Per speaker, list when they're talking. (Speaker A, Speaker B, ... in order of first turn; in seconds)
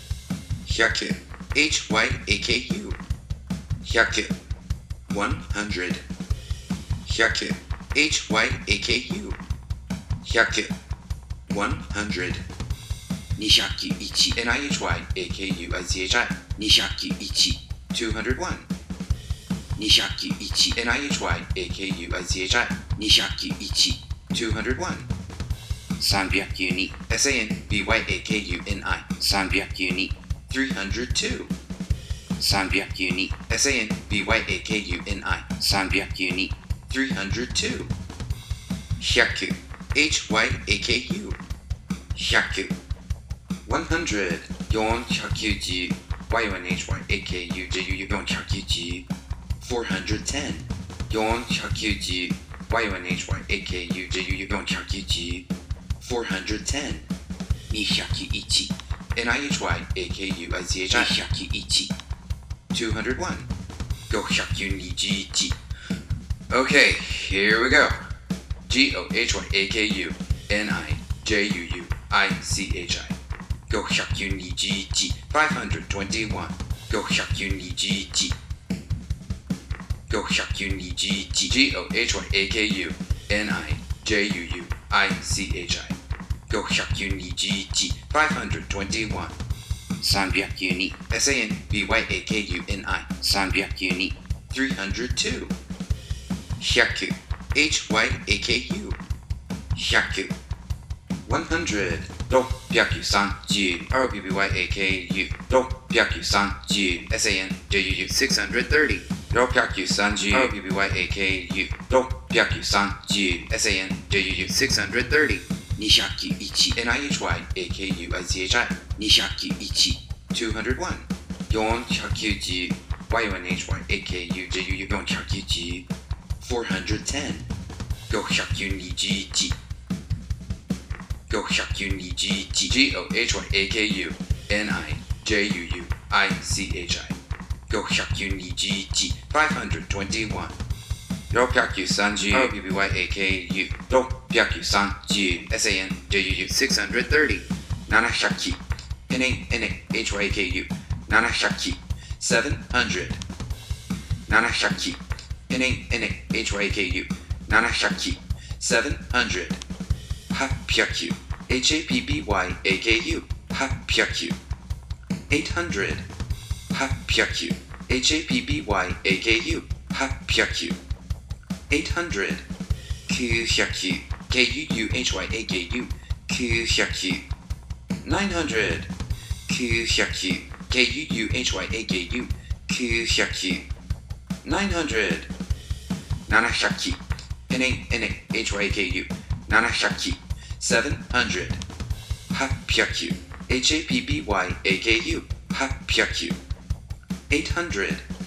Speaker A: 0.6-3.0, 3.8-4.3, 5.1-6.0, 7.0-9.4, 10.2-10.7, 11.5-12.4, 13.4-18.7, 19.8-25.1, 26.0-31.5, 32.4-37.9, 39.0-41.4, 42.1-42.8, 43.6-49.1, 49.6-55.5, 56.0-57.1, 57.7-61.9, 62.7-63.5, 64.1-65.6, 66.5-68.0, 68.7-73.2, 73.7-78.4, 80.1-86.0, 86.5-89.3, 90.0-95.5, 96.6-99.0, 99.7-100.3, 101.2-125.9, 126.4-127.5, 128.1-129.6, 131.3-137.2, 137.7-140.6, 141.3-153.2, 154.3-159.6, 160.3-164.4, 165.3-166.1, 166.7-170.8, 171.7-172.5, 173.1-177.3, 178.0-178.9, 179.5-183.7, 184.4-185.3, 186.3-191.6, 192.3-196.4, 197.3-198.1